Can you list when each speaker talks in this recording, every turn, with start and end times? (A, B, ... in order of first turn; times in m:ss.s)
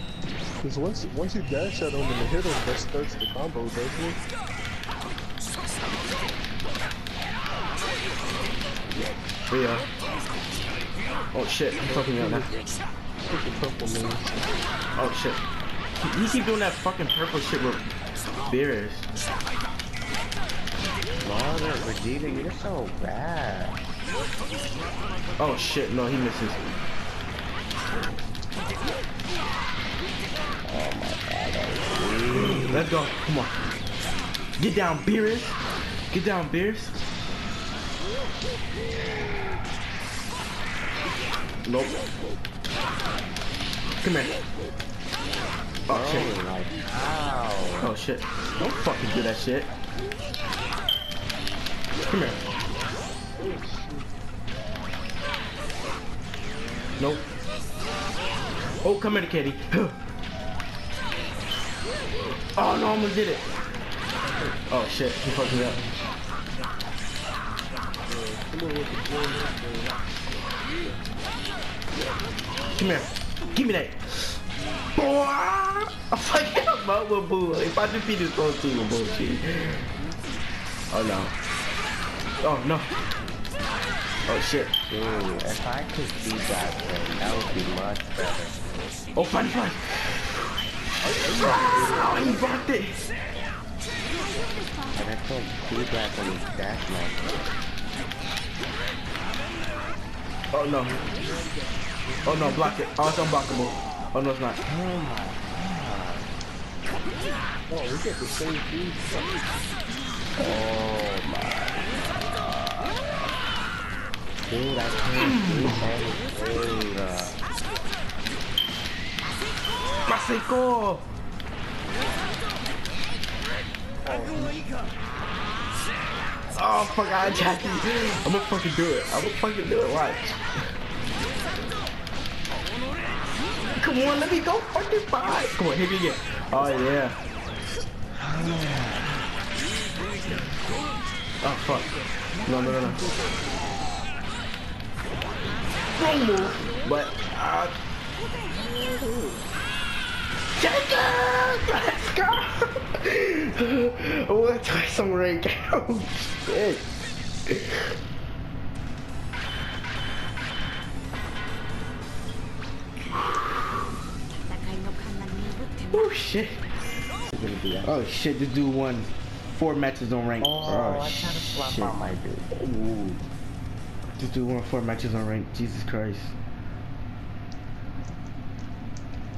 0:00.6-0:04.2 A
0:09.5-0:09.9 B
0:11.3-0:12.5 B
0:11.8-0:12.6 A
0:13.3-0:14.4 A
0:15.0-0:15.4 B
0:16.0-0:17.9 B
0:18.5-0:19.1 B
0:21.2-0:23.8 C
0:25.4-0:26.6 B
0:30.6-0:32.9 C
0:32.3-0:33.6 B
0:34.6-0:35.6 B
0:36.1-0:36.9 B
0:41.6-0:42.0 B
0:44.0-0:44.4 B
0:45.9-0:46.4 B
0:45.9-0:47.9 C
0:47.8-0:49.7 B
0:52.1-0:52.4 B
0:53.3-0:54.1 A
0:57.0-0:57.3 B
0:58.8-1:00.0 B
1:02.5-1:03.4 B
1:04.7-1:05.8 B
1:05.2-1:05.9 A
1:08.1-1:10.0 A
1:12.7-1:14.4 B
1:15.0-1:19.9 B
1:20.9-1:21.3 B
1:22.4-1:22.9 B
1:24.3-1:24.7 B
1:24.9-1:28.6 C
1:29.2-1:30.5 B
1:31.0-1:32.5 A
1:31.3-1:33.0 B
1:34.9-1:37.4 C
1:40.5-1:41.0 B
1:42.2-1:42.5 A
1:42.2-1:44.6 B
1:44.6-1:46.3 C
1:47.7-1:49.3 A
1:50.4-1:53.4 C
1:54.5-1:57.4 C
1:55.2-1:55.8 B
2:00.0-2:01.1 B
2:04.0-2:04.6 A
2:06.5-2:10.7 B
2:13.7-2:17.2 B
2:18.2-2:19.3 C
2:21.4-2:23.1 B
2:25.9-2:27.7 B
2:28.5-2:29.5 A
2:30.6-2:36.8 B
2:37.5-2:37.9 B
2:45.9-2:46.6 B
2:47.3-2:48.0 C
2:47.8-2:52.0 B
2:50.4-2:53.2 C
2:54.2-2:56.3 B